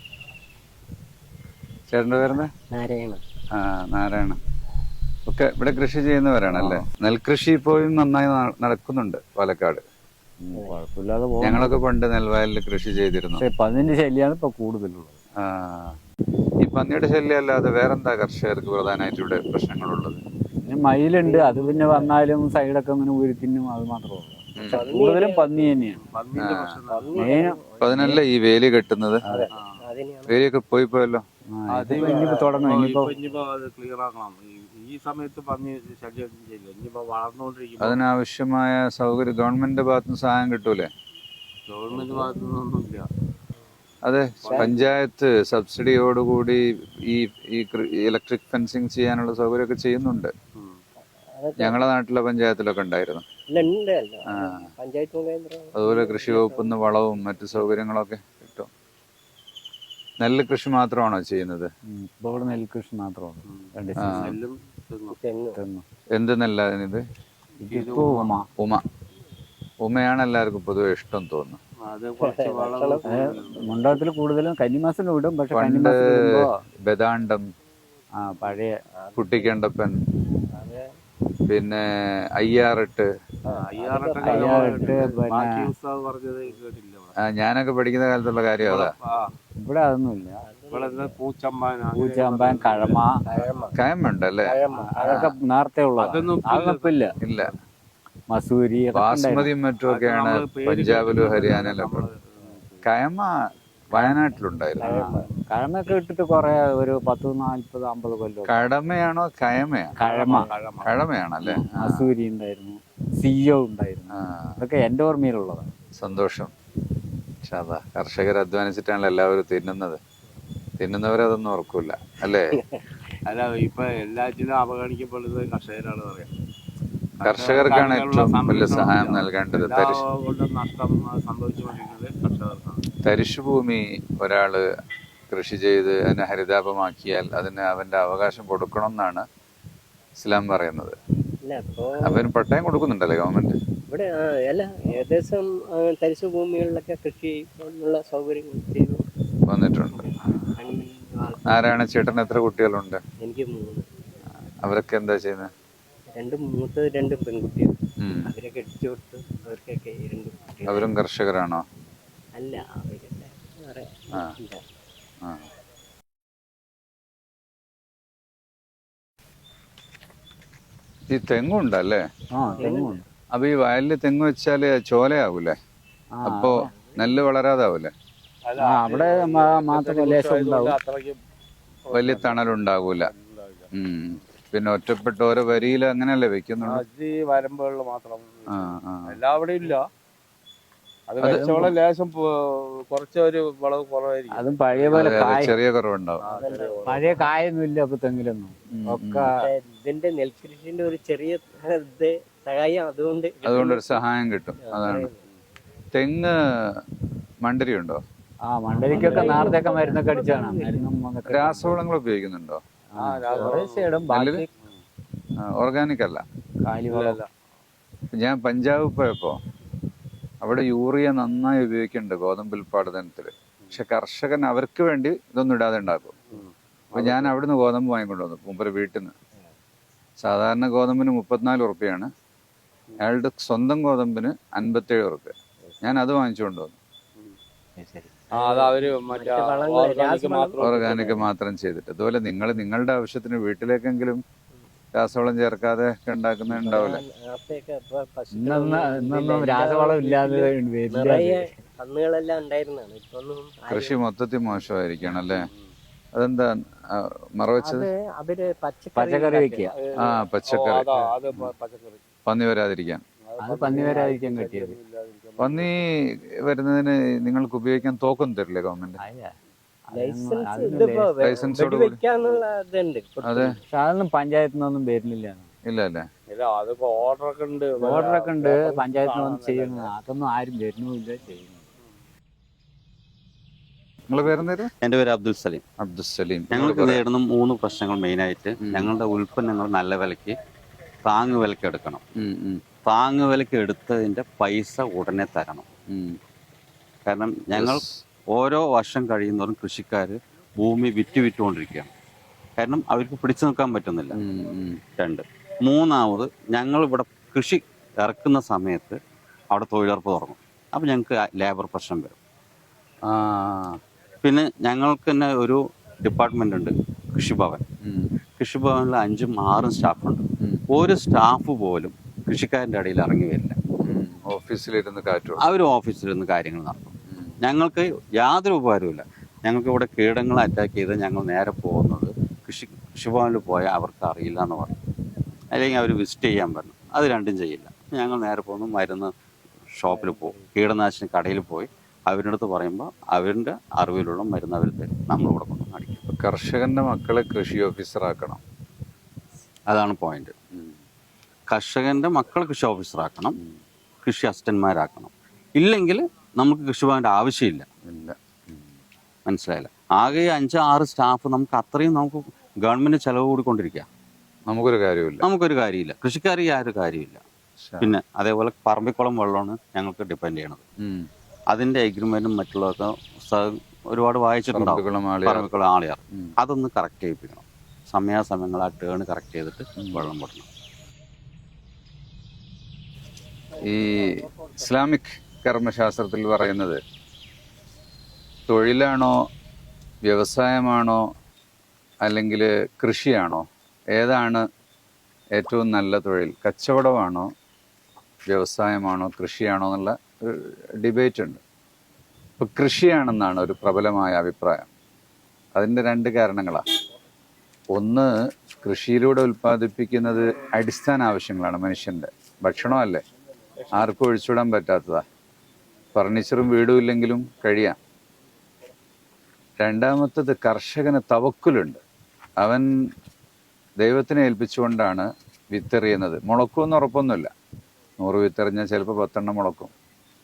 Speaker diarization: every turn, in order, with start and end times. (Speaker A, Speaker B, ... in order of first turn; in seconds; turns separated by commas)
Speaker A: 1.9-2.5, Speaker B: 2.7-3.2, Speaker A: 3.5-4.4, Speaker A: 5.3-9.8, Speaker C: 6.5-6.9, Speaker C: 10.4-11.8, Speaker A: 11.4-13.4, Speaker C: 13.4-15.2, Speaker A: 15.4-16.0, Speaker A: 16.6-20.2, Speaker C: 20.6-26.0, Speaker B: 21.2-22.1, Speaker A: 24.6-24.9, Speaker B: 24.7-25.7, Speaker D: 25.9-27.6, Speaker A: 26.4-26.8, Speaker B: 26.9-28.0, Speaker C: 27.2-28.2, Speaker A: 27.8-29.2, Speaker B: 29.3-30.4, Speaker D: 29.5-29.8, Speaker A: 30.3-31.2, Speaker C: 31.5-33.1, Speaker D: 31.7-38.0, Speaker B: 31.9-32.7, Speaker A: 37.8-40.9, Speaker D: 41.7-43.1, Speaker A: 44.0-50.3, Speaker D: 44.4-44.8, Speaker B: 44.5-44.8, Speaker B: 51.4-51.9, Speaker A: 51.6-53.2, Speaker B: 53.5-56.8, Speaker A: 54.3-54.7, Speaker A: 55.8-58.7, Speaker A: 60.2-61.7, Speaker C: 61.9-64.3, Speaker D: 63.5-65.2, Speaker A: 64.0-64.3, Speaker B: 65.1-65.6, Speaker C: 65.5-65.8, Speaker A: 66.2-67.0, Speaker C: 67.6-68.5, Speaker D: 67.7-68.4, Speaker A: 68.6-68.8, Speaker A: 69.8-71.6, Speaker D: 71.9-74.0, Speaker B: 72.2-73.0, Speaker C: 73.0-76.5, Speaker A: 75.5-77.5, Speaker C: 78.2-78.7, Speaker B: 79.0-79.5, Speaker A: 79.2-80.0, Speaker B: 80.5-80.9, Speaker A: 81.5-81.8, Speaker A: 82.4-83.1, Speaker D: 83.5-87.1, Speaker B: 83.5-85.1, Speaker C: 84.2-85.7, Speaker A: 87.2-88.9, Speaker D: 88.6-89.3, Speaker C: 89.6-90.4, Speaker B: 90.4-91.2, Speaker D: 90.7-93.0, Speaker C: 92.0-93.2, Speaker B: 93.2-93.8, Speaker A: 93.8-94.6, Speaker B: 94.4-95.3, Speaker C: 94.9-97.1, Speaker D: 96.0-97.6, Speaker A: 97.2-97.5, Speaker C: 98.3-99.5, Speaker A: 98.9-102.0, Speaker D: 99.9-102.8, Speaker A: 102.8-103.3, Speaker A: 103.9-104.9, Speaker B: 104.8-105.3, Speaker C: 104.8-108.7, Speaker A: 108.5-110.0, Speaker C: 110.0-110.5, Speaker D: 110.0-111.0, Speaker A: 110.8-112.1, Speaker C: 111.4-115.7, Speaker A: 114.2-114.6, Speaker A: 116.0-116.5, Speaker A: 117.4-120.0, Speaker A: 120.8-122.6, Speaker B: 122.5-122.9, Speaker D: 123.3-126.3, Speaker D: 127.2-132.8, Speaker A: 127.2-130.0, Speaker A: 133.0-134.7, Speaker A: 135.3-139.3, Speaker A: 140.2-141.0, Speaker B: 141.4-142.2, Speaker A: 142.0-143.6, Speaker B: 143.9-149.0, Speaker A: 149.5-150.0, Speaker B: 149.9-151.7, Speaker A: 151.5-153.0, Speaker B: 153.2-153.9, Speaker A: 154.6-155.5, Speaker B: 156.2-160.9, Speaker A: 158.0-158.3, Speaker A: 160.7-161.6, Speaker B: 162.3-164.6, Speaker A: 171.1-172.0, Speaker C: 172.3-173.1, Speaker B: 172.6-173.0, Speaker A: 173.3-175.6, Speaker C: 176.2-176.7, Speaker A: 176.2-177.9, Speaker B: 176.7-177.1, Speaker D: 178.5-181.2, Speaker C: 178.6-180.8, Speaker D: 181.8-183.7, Speaker A: 181.9-183.1, Speaker A: 183.7-186.8, Speaker D: 186.6-189.8, Speaker A: 188.5-189.2, Speaker D: 191.1-195.4, Speaker C: 191.2-191.7, Speaker C: 194.3-195.6, Speaker A: 194.9-196.2, Speaker D: 196.2-197.3, Speaker B: 196.3-197.1, Speaker C: 196.8-199.3, Speaker A: 198.8-199.3, Speaker B: 199.4-203.9, Speaker A: 203.4-205.1, Speaker B: 204.7-205.2, Speaker A: 205.9-206.8, Speaker A: 207.4-208.0, Speaker C: 208.5-211.8, Speaker B: 208.8-210.9, Speaker D: 208.9-209.7, Speaker A: 211.3-212.6, Speaker C: 212.9-214.5, Speaker D: 213.0-214.1, Speaker A: 214.1-214.4, Speaker A: 215.4-216.2, Speaker C: 216.6-217.2, Speaker D: 216.9-217.3, Speaker A: 218.1-219.4, Speaker A: 220.4-226.2, Speaker D: 226.3-227.3, Speaker A: 226.9-229.2, Speaker A: 230.2-232.1, Speaker A: 233.0-236.8, Speaker B: 237.8-240.6, Speaker D: 238.3-241.3, Speaker A: 240.6-244.2, Speaker A: 245.0-247.0, Speaker B: 246.5-254.0, Speaker C: 248.3-251.6, Speaker A: 253.7-255.4, Speaker D: 255.1-255.7, Speaker A: 256.1-257.9, Speaker B: 257.6-259.7, Speaker C: 259.0-259.7, Speaker D: 259.7-262.0, Speaker A: 260.0-261.5, Speaker A: 262.3-263.0, Speaker D: 263.3-265.9, Speaker C: 263.4-264.8, Speaker A: 265.4-265.8, Speaker A: 266.4-269.0, Speaker C: 269.0-269.4, Speaker C: 269.9-271.4, Speaker B: 269.9-273.6, Speaker A: 271.2-272.0, Speaker A: 273.2-273.6, Speaker C: 273.7-275.5, Speaker A: 275.7-276.1, Speaker D: 276.3-279.9, Speaker C: 277.8-281.6, Speaker A: 284.1-284.7, Speaker E: 284.8-285.6, Speaker A: 285.8-287.0, Speaker E: 286.5-290.4, Speaker A: 288.6-288.9, Speaker E: 291.0-292.1, Speaker A: 292.2-292.6, Speaker E: 292.9-295.7, Speaker A: 295.9-296.2, Speaker E: 297.1-301.9, Speaker A: 297.5-298.0, Speaker E: 302.6-304.2, Speaker A: 304.1-304.8, Speaker E: 305.0-309.0, Speaker E: 309.5-312.2, Speaker A: 313.1-313.8, Speaker E: 314.2-317.6, Speaker A: 317.8-318.1, Speaker E: 318.4-323.6, Speaker A: 323.8-325.5, Speaker E: 325.4-334.7, Speaker A: 327.1-327.4, Speaker E: 335.5-339.1, Speaker E: 339.7-346.1, Speaker A: 346.1-348.4, Speaker E: 349.7-350.4, Speaker E: 351.5-353.4, Speaker E: 354.0-357.7, Speaker A: 357.9-358.7, Speaker E: 359.3-363.9, Speaker A: 364.5-365.3, Speaker E: 365.2-367.2, Speaker A: 367.6-367.9, Speaker E: 367.8-370.6, Speaker A: 370.8-371.1, Speaker E: 371.5-380.5, Speaker A: 374.5-375.5, Speaker A: 379.8-380.1, Speaker A: 383.6-386.8, Speaker A: 388.5-389.2, Speaker A: 390.1-391.0, Speaker A: 392.0-394.4, Speaker A: 395.4-397.3, Speaker A: 398.3-401.4, Speaker A: 402.4-404.7, Speaker A: 405.6-406.6, Speaker A: 407.7-413.0, Speaker A: 413.7-415.0, Speaker A: 416.0-417.8, Speaker A: 419.6-421.8, Speaker A: 422.4-422.7, Speaker A: 423.8-427.3, Speaker A: 428.0-429.7